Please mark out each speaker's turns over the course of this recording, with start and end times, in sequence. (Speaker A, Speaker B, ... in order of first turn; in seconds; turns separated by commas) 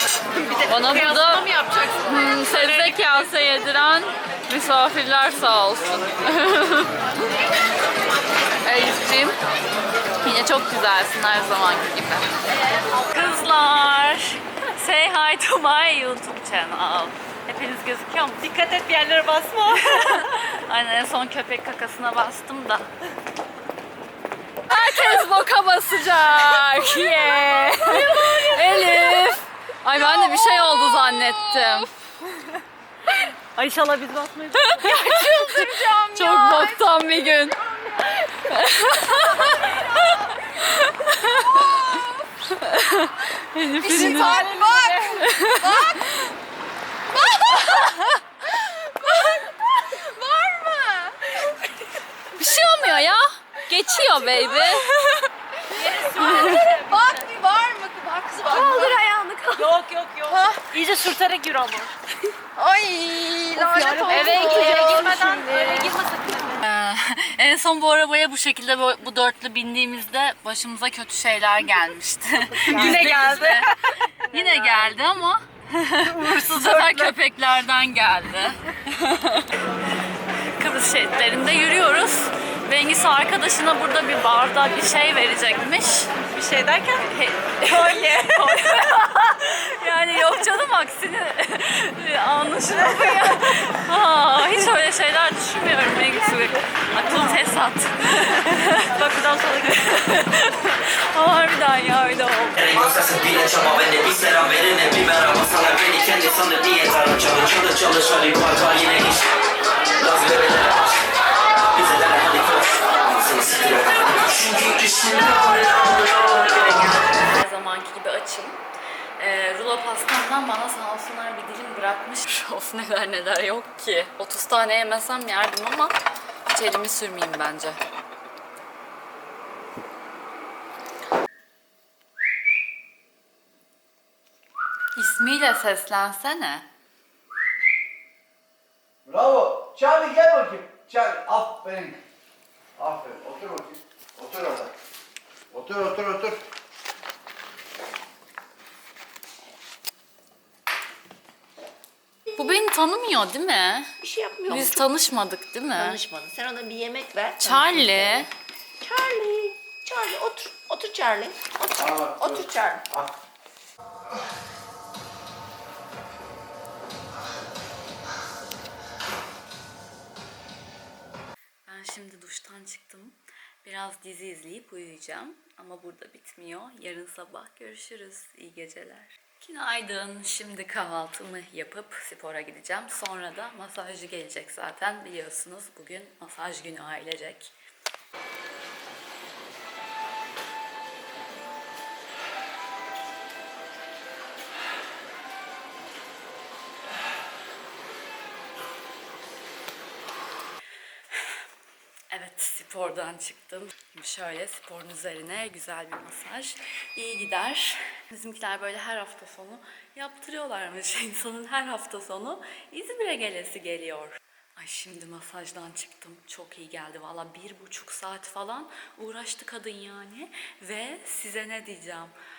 Speaker A: 0.3-3.3, Speaker B: 0.7-1.5, Speaker B: 2.0-7.0, Speaker B: 8.6-9.3, Speaker B: 10.2-12.3, Speaker B: 12.9-18.5, Speaker A: 18.4-20.3, Speaker B: 19.7-22.9, Speaker B: 24.7-31.9, Speaker A: 27.8-29.2, Speaker A: 32.2-32.6, Speaker A: 33.5-36.8, Speaker B: 34.5-46.3, Speaker A: 39.1-40.4, Speaker A: 41.5-42.1, Speaker A: 43.8-46.0, Speaker B: 47.1-51.6, Speaker B: 52.3-57.3, Speaker A: 55.7-59.0, Speaker B: 58.4-59.7, Speaker A: 59.5-62.0, Speaker B: 60.3-60.6, Speaker B: 62.6-65.9, Speaker A: 63.5-66.6, Speaker B: 66.6-79.6, Speaker A: 72.5-74.9, Speaker A: 76.0-77.1, Speaker B: 80.5-86.1, Speaker A: 86.2-89.0, Speaker B: 87.0-102.6, Speaker A: 92.7-93.6, Speaker C: 102.6-109.2, Speaker C: 110.0-111.0, Speaker C: 111.7-115.0, Speaker B: 114.0-118.6, Speaker B: 119.2-126.0, Speaker B: 126.5-127.8, Speaker B: 134.9-136.7, Speaker D: 139.1-142.0, Speaker D: 142.8-144.7, Speaker D: 145.5-146.4, Speaker B: 152.3-156.0, Speaker E: 154.0-154.9, Speaker E: 155.8-158.3, Speaker B: 157.4-158.3, Speaker E: 158.8-162.9, Speaker D: 161.8-163.1, Speaker B: 171.7-187.5, Speaker B: 202.1-222.1